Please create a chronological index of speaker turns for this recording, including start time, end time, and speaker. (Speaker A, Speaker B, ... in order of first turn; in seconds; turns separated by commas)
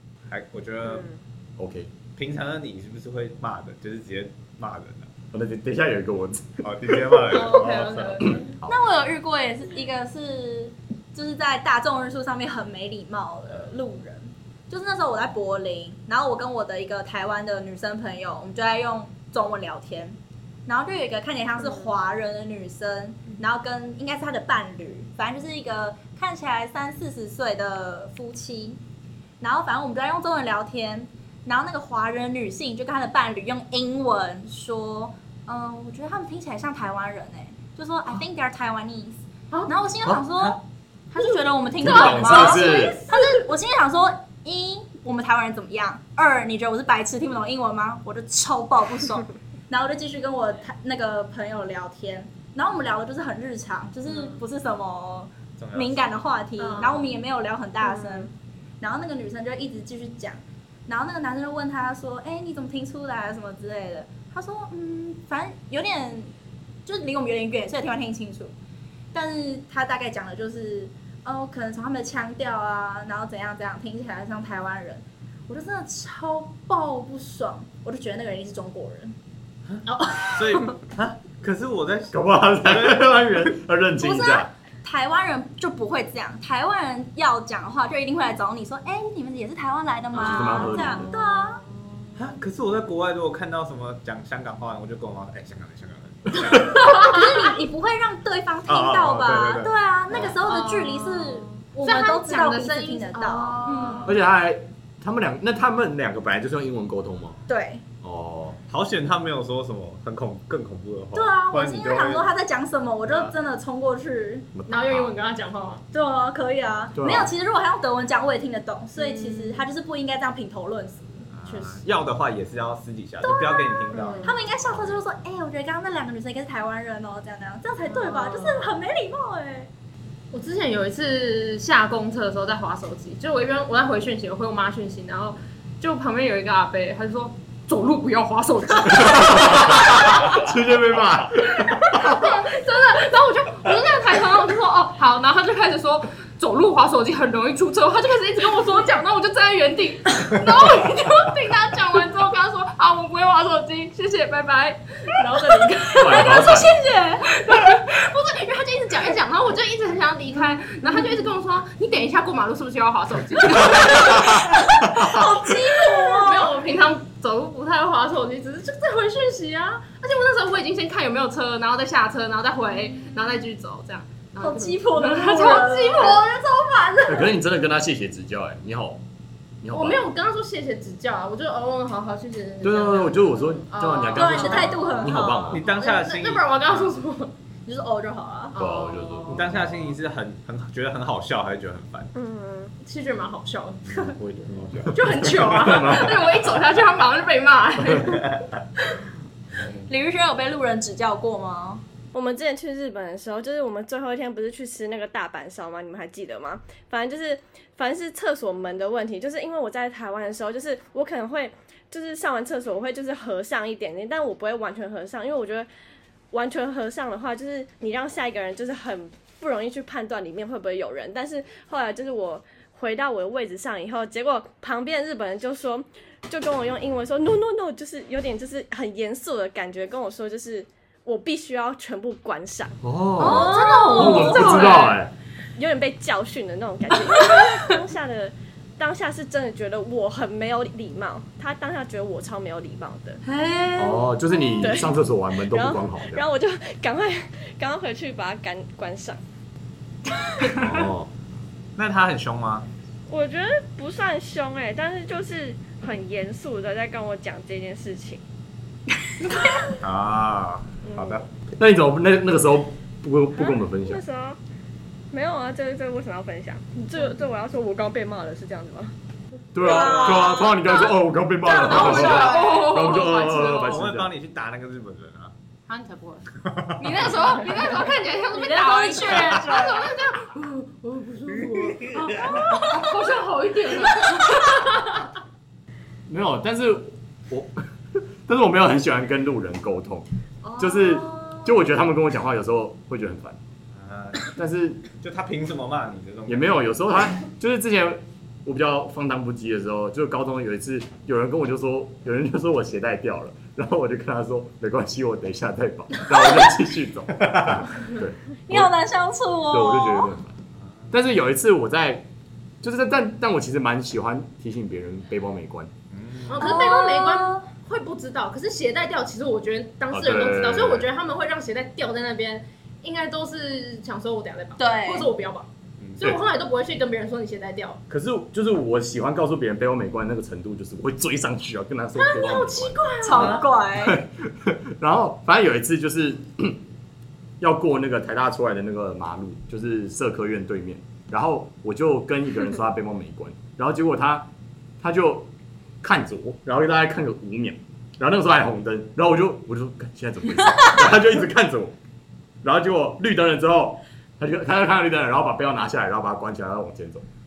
Speaker A: 0.3-1.1, Speaker B: 1.6-1.9, Speaker A: 2.1-5.1, Speaker B: 5.3-7.5, Speaker A: 6.6-8.4, Speaker C: 7.3-8.5, Speaker B: 8.2-8.8, Speaker D: 8.7-28.8, Speaker D: 29.4-66.3, Speaker C: 41.2-43.4, Speaker B: 41.8-43.0, Speaker C: 54.0-54.4, Speaker A: 55.6-56.0, Speaker C: 56.6-57.2, Speaker D: 66.8-68.5, Speaker D: 69.1-79.1, Speaker A: 79.7-83.5, Speaker C: 79.9-80.7, Speaker B: 82.1-84.5, Speaker D: 84.0-91.6, Speaker B: 90.1-91.2, Speaker C: 90.4-92.2, Speaker A: 92.2-97.0, Speaker D: 96.5-104.2, Speaker A: 98.7-100.3, Speaker C: 100.2-104.2, Speaker B: 104.0-107.4, Speaker D: 107.5-107.8, Speaker B: 108.0-108.6, Speaker A: 108.7-112.3, Speaker D: 111.1-114.5, Speaker A: 113.0-113.3, Speaker B: 114.5-115.1, Speaker C: 114.7-115.8, Speaker D: 115.9-121.3, Speaker B: 117.0-117.3, Speaker C: 119.0-119.7, Speaker A: 121.3-125.0, Speaker C: 121.5-121.8, Speaker D: 123.2-129.7, Speaker C: 123.9-124.4, Speaker C: 127.8-128.8, Speaker C: 130.3-140.4, Speaker B: 138.9-142.3, Speaker C: 141.6-156.7, Speaker B: 156.0-156.7, Speaker D: 156.0-157.3, Speaker C: 157.2-164.6, Speaker B: 163.6-165.3, Speaker D: 164.0-166.6, Speaker C: 165.9-177.4, Speaker D: 174.4-176.3, Speaker B: 177.1-179.0, Speaker B: 179.6-180.0, Speaker C: 179.7-187.3, Speaker B: 182.6-185.6, Speaker D: 184.1-185.6, Speaker A: 185.5-186.9, Speaker D: 187.7-188.6, Speaker C: 188.5-189.4, Speaker B: 188.6-189.9, Speaker A: 189.3-192.1, Speaker E: 192.1-192.7, Speaker C: 192.8-194.2, Speaker A: 193.9-195.8, Speaker C: 194.9-198.4, Speaker B: 195.3-196.4, Speaker B: 197.8-198.2, Speaker D: 199.9-201.8, Speaker E: 202.1-215.7, Speaker E: 216.3-232.8, Speaker B: 232.8-235.1, Speaker C: 233.2-235.0, Speaker D: 233.2-234.9, Speaker E: 235.6-243.2, Speaker C: 243.3-243.8, Speaker B: 243.8-246.2, Speaker E: 244.6-244.9, Speaker E: 245.5-249.2, Speaker B: 250.5-251.1, Speaker A: 251.8-252.7, Speaker E: 253.1-258.2, Speaker A: 259.8-261.2, Speaker E: 260.9-261.2, Speaker B: 261.6-264.0, Speaker E: 263.4-264.4, Speaker E: 265.1-268.9, Speaker B: 269.5-274.1, Speaker D: 269.6-272.9, Speaker C: 269.8-270.2, Speaker C: 271.5-273.8, Speaker A: 273.6-275.3, Speaker C: 275.7-276.3, Speaker A: 276.3-277.1, Speaker C: 276.8-285.1, Speaker D: 278.3-279.9, Speaker A: 279.1-279.4, Speaker A: 281.4-282.6, Speaker D: 282.3-282.7, Speaker B: 286.1-290.1, Speaker D: 290.4-291.5, Speaker B: 290.6-293.4, Speaker A: 293.7-294.3, Speaker B: 294.3-294.8, Speaker A: 294.9-296.6, Speaker B: 296.3-308.7, Speaker D: 306.1-306.5, Speaker A: 307.2-307.6, Speaker D: 308.5-310.1, Speaker B: 309.5-310.4, Speaker B: 310.9-312.1, Speaker B: 312.6-315.7, Speaker A: 315.9-316.5, Speaker C: 316.3-325.5, Speaker D: 316.4-317.4, Speaker B: 319.9-320.9, Speaker D: 324.6-325.1, Speaker A: 325.8-326.1, Speaker C: 326.0-327.8, Speaker B: 327.9-336.6, Speaker C: 331.9-333.4, Speaker D: 333.0-334.0, Speaker B: 337.4-344.3, Speaker B: 344.8-345.3, Speaker B: 345.8-351.8, Speaker B: 352.4-357.0